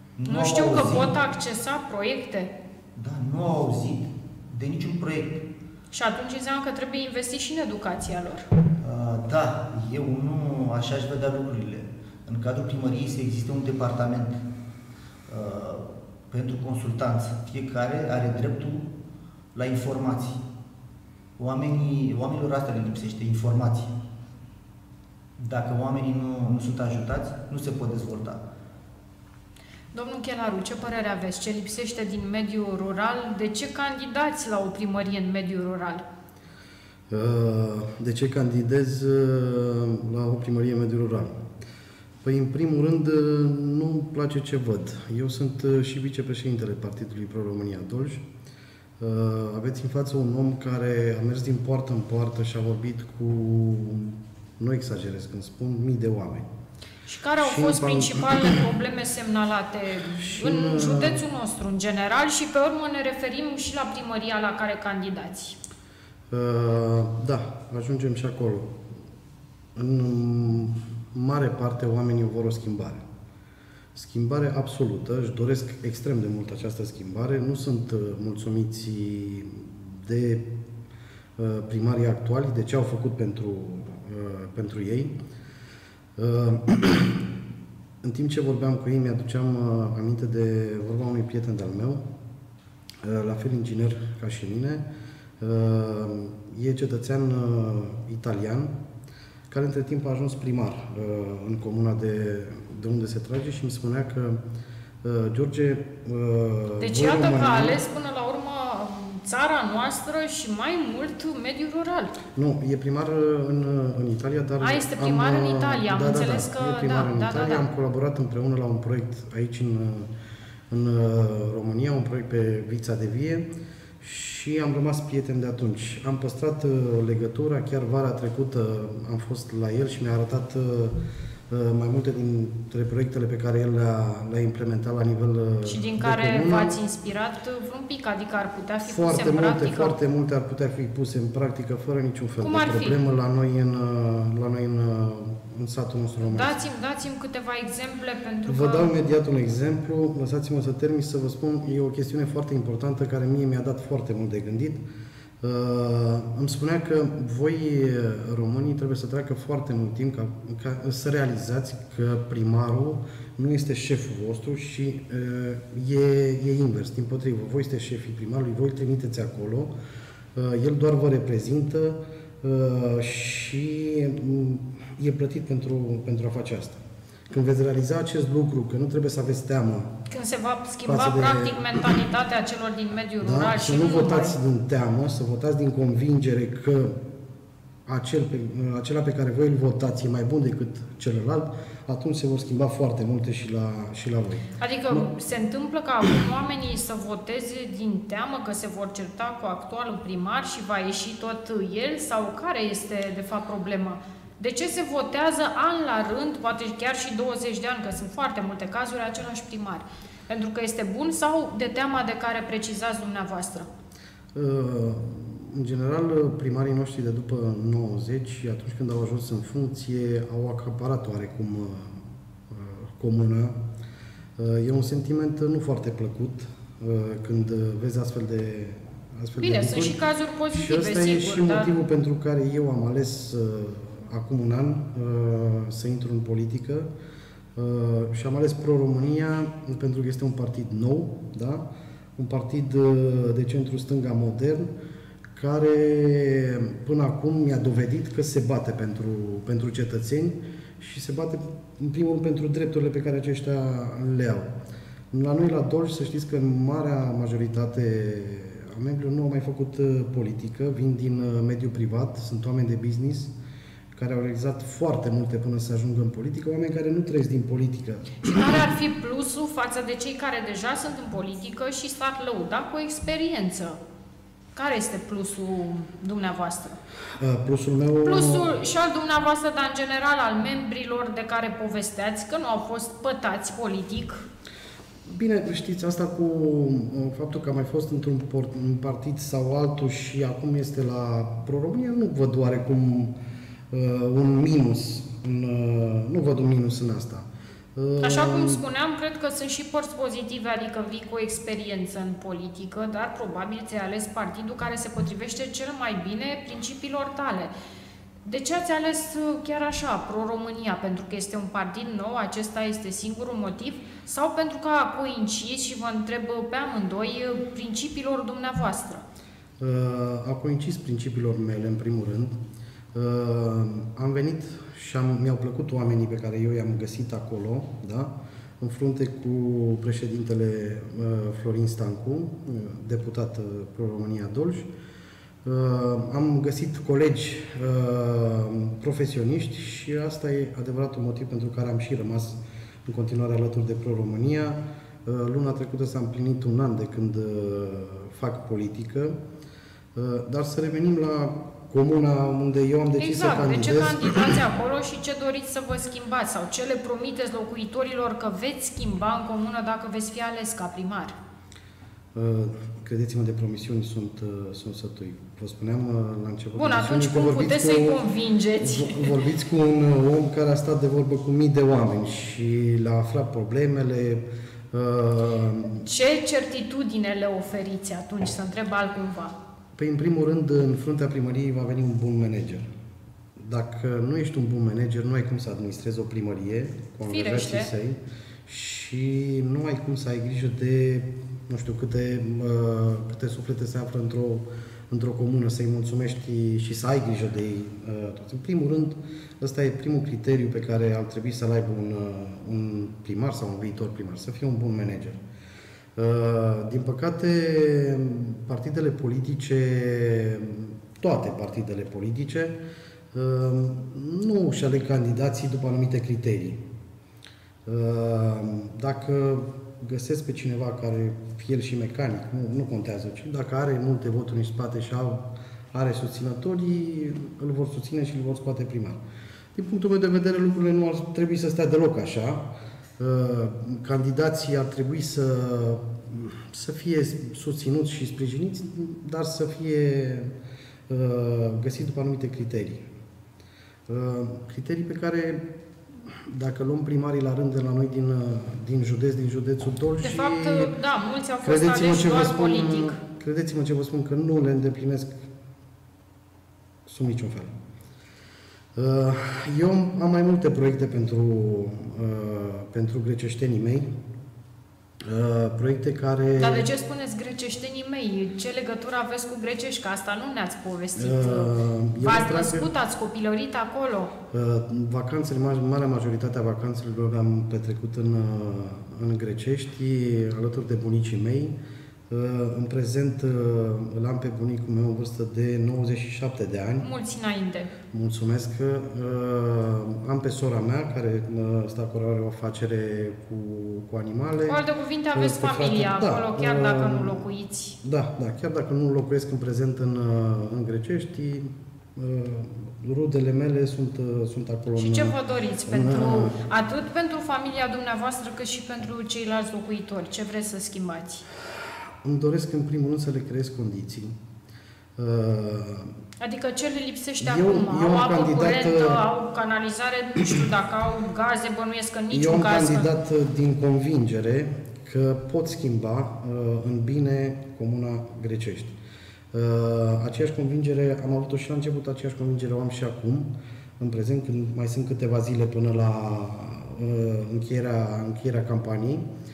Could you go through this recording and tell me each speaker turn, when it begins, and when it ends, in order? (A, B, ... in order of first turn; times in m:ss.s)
0:00.2-0:01.2 A
0:00.3-0:02.5 B
0:02.9-0:05.4 A
0:05.9-0:08.5 B
0:08.8-0:14.4 A
0:15.3-0:18.9 A
0:19.5-0:20.4 A
0:21.4-0:23.9 A
0:25.4-0:28.4 A
0:29.9-0:36.0 B
0:37.1-0:41.4 C
0:42.2-0:48.2 C
0:49.0-0:56.5 C
0:57.0-1:05.6 B
0:57.4-0:58.6 C
1:00.2-1:01.2 C
1:06.3-1:08.8 C
1:09.8-1:13.0 C
1:13.9-1:20.5 C
1:21.4-1:25.1 C
1:26.2-1:27.1 C
1:28.0-1:32.0 C
1:33.0-1:34.8 C
1:35.4-1:38.7 C
1:39.5-1:44.4 C
1:45.0-1:47.8 C
1:46.8-1:52.1 B
1:52.3-2:00.1 C
1:54.6-1:57.6 B
2:00.7-2:03.4 C
2:04.0-2:11.0 C
2:11.5-2:16.8 C
2:15.6-2:19.9 B
2:18.8-2:26.5 C
2:22.4-2:23.0 B
2:26.2-2:28.9 B
2:28.5-2:34.8 C
2:35.4-2:49.7 C
2:50.3-2:59.9 C
3:00.1-3:04.3 B
3:00.8-3:02.0 C
3:03.2-3:07.0 C
3:07.8-3:15.1 C
3:14.6-3:33.7 B
3:34.3-3:43.5 C
3:44.4-3:50.0 C
3:49.4-3:51.7 B
3:50.5-3:56.9 C
3:57.6-4:04.7 C
4:05.4-4:14.5 C
4:15.1-4:23.3 C
4:23.9-4:28.6 C
4:28.2-4:33.8 B
4:34.5-4:36.8 B
4:37.2-4:38.6 C
4:38.0-4:44.2 B
4:45.1-4:53.1 C
4:53.7-4:58.6 C
4:58.0-5:07.5 B
5:08.2-5:19.0 B
5:19.6-5:22.4 C
5:22.9-5:34.7 C
5:35.4-5:49.2 C
5:49.9-5:54.3 C
5:53.0-6:01.1 B
6:02.1-6:08.0 C
6:06.5-6:09.2 B
6:08.6-6:15.8 C
6:15.8-6:19.3 B
6:19.8-6:22.7 C
6:23.4-6:45.2 C
6:27.0-6:27.7 B
6:46.0-6:52.6 C
6:53.1-6:56.6 C
6:57.6-7:09.0 C
7:09.6-7:12.5 C
7:13.0-7:20.3 C
7:20.9-7:22.8 C
7:23.9-7:25.4 C
7:26.1-7:30.7 C
7:30.0-7:33.0 B
7:31.4-7:35.1 C
7:36.9-7:37.5 C
7:38.8-7:43.9 C
7:45.0-7:46.7 C
7:46.4-7:54.1 B
7:51.0-7:52.7 C
7:54.3-8:01.6 C
8:02.1-8:06.9 C
8:06.8-8:07.7 B
8:07.9-8:14.6 C
8:14.5-8:17.8 B
8:15.1-8:17.2 C
8:17.8-8:25.1 C
8:24.7-8:31.2 B
8:25.7-8:26.4 C
8:32.0-8:34.2 C
8:35.0-8:35.9 C
8:36.2-8:42.9 B
8:37.2-8:39.0 C
8:42.1-8:48.7 C
8:49.3-8:59.1 C